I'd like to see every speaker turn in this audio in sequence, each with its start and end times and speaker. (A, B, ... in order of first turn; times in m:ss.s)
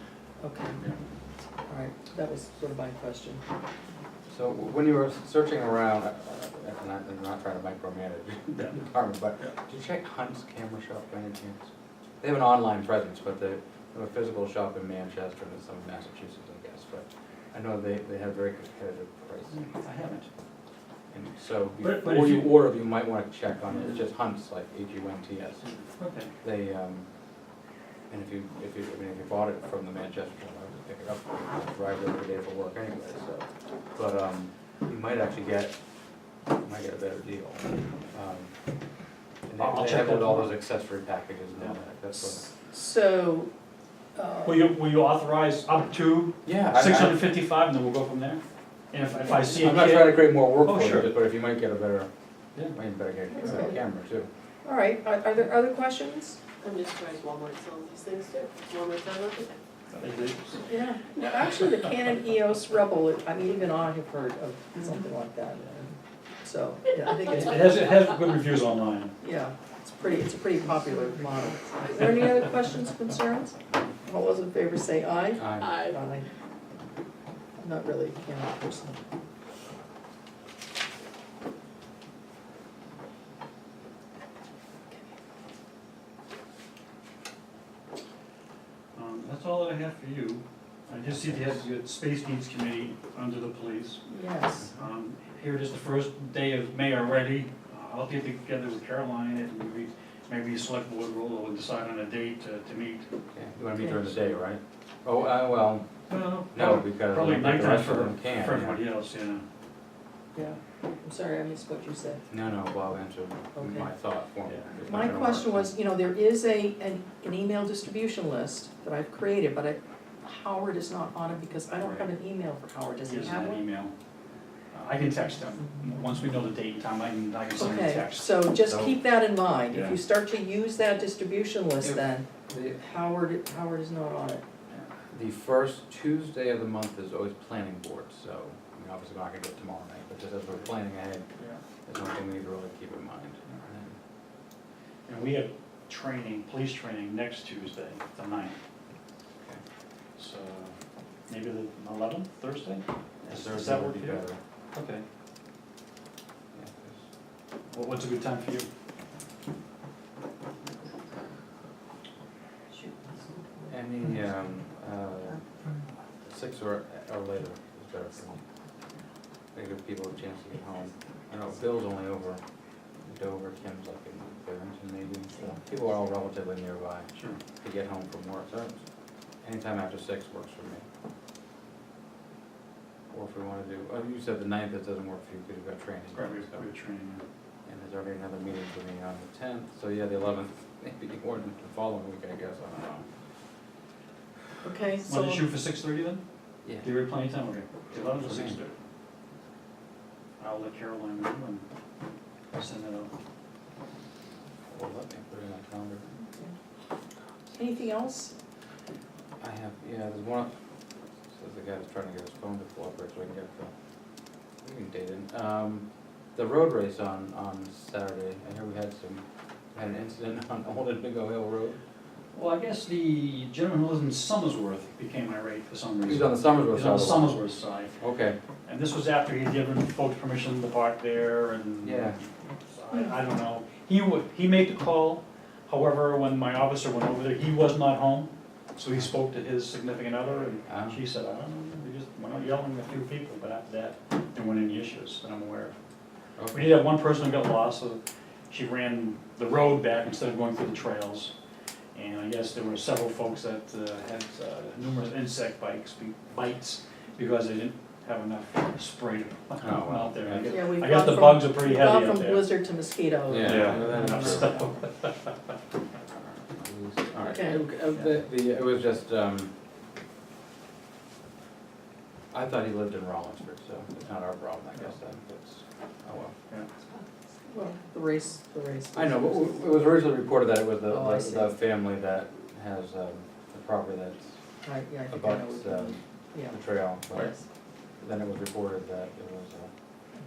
0:00.4-0:00.8 A
0:01.7-0:03.4 A
0:04.3-0:11.6 B
0:08.5-0:09.5 C
0:12.2-0:19.6 B
0:19.5-0:20.3 C
0:21.1-0:25.7 B
0:21.8-0:22.6 C
0:23.7-0:24.0 C
0:25.6-0:26.3 C
0:26.4-0:27.0 B
0:28.1-0:35.8 B
0:36.6-0:38.5 B
0:39.5-0:42.5 B
0:39.6-0:40.6 C
0:41.6-0:41.8 C
0:42.5-0:43.5 A
0:44.1-0:44.7 A
0:44.4-0:51.2 C
0:46.4-0:47.3 B
0:49.3-0:49.6 A
0:49.5-0:52.1 B
0:52.7-0:54.3 B
0:53.4-0:53.8 A
0:54.6-0:56.4 A
0:56.6-1:00.3 D
0:59.9-1:00.6 C
1:00.7-1:07.9 A
1:07.3-1:09.1 C
1:07.3-1:07.7 D
1:09.2-1:16.3 A
1:15.4-1:15.8 B
1:15.6-1:16.0 D
1:17.6-1:19.0 A
1:29.0-1:34.0 C
1:30.9-1:31.5 B
1:34.1-1:34.7 A
1:34.8-1:43.1 C
1:43.3-1:45.9 B
1:43.8-1:44.3 A
1:46.1-1:49.4 C
1:46.5-1:48.8 B
1:50.3-1:52.2 A
1:52.3-1:55.7 B
1:53.6-1:53.9 A
1:54.4-1:54.7 C
1:54.8-2:03.6 A
2:01.7-2:02.1 C
2:03.0-2:03.9 C
2:04.7-2:08.4 C
2:07.5-2:12.3 A
2:08.6-2:09.0 B
2:09.7-2:10.0 C
2:11.8-2:12.8 B
2:12.8-2:14.4 A
2:15.1-2:21.2 B
2:21.8-2:24.0 B
2:25.1-2:28.6 C
2:30.2-2:30.8 C
2:31.3-2:35.0 C
2:33.2-2:34.4 B
2:36.5-2:37.0 B
2:37.7-2:38.7 C
2:42.7-2:43.7 A
2:43.7-2:45.4 B
2:46.2-2:48.4 B
2:49.5-2:52.4 B
2:53.0-2:58.8 B
2:59.4-3:00.8 B
3:03.1-3:06.7 B
3:06.1-3:07.2 C
3:07.7-3:13.1 B
3:14.6-3:15.4 A
3:15.0-3:16.2 C
3:16.6-3:16.9 B
3:16.8-3:18.8 C
3:17.9-3:18.6 B
3:20.4-3:21.7 C
3:22.5-3:23.1 C
3:24.7-3:26.0 B
3:26.2-3:26.5 A
3:27.5-3:28.3 A
3:29.4-3:30.5 B
3:31.3-3:33.7 B
3:34.6-3:39.2 B
3:39.7-3:41.8 B
3:42.3-3:48.0 C
3:46.1-3:47.4 B
3:48.0-3:48.4 B
3:48.6-4:05.8 C
3:51.8-3:52.2 B
4:00.7-4:01.0 B
4:06.4-4:06.8 B
4:06.5-4:11.3 C
4:11.9-4:22.5 C
4:19.6-4:20.5 B
4:20.5-4:24.5 A
4:23.3-4:24.6 B
4:23.4-4:25.4 C
4:26.5-4:29.5 B
4:27.2-4:27.6 A
4:32.3-4:36.3 B
4:36.7-4:37.8 D
4:37.5-4:39.6 A
4:38.9-4:44.3 B
4:40.9-4:41.5 A
4:44.6-4:47.4 A
4:45.1-4:47.4 B
4:48.0-4:49.7 B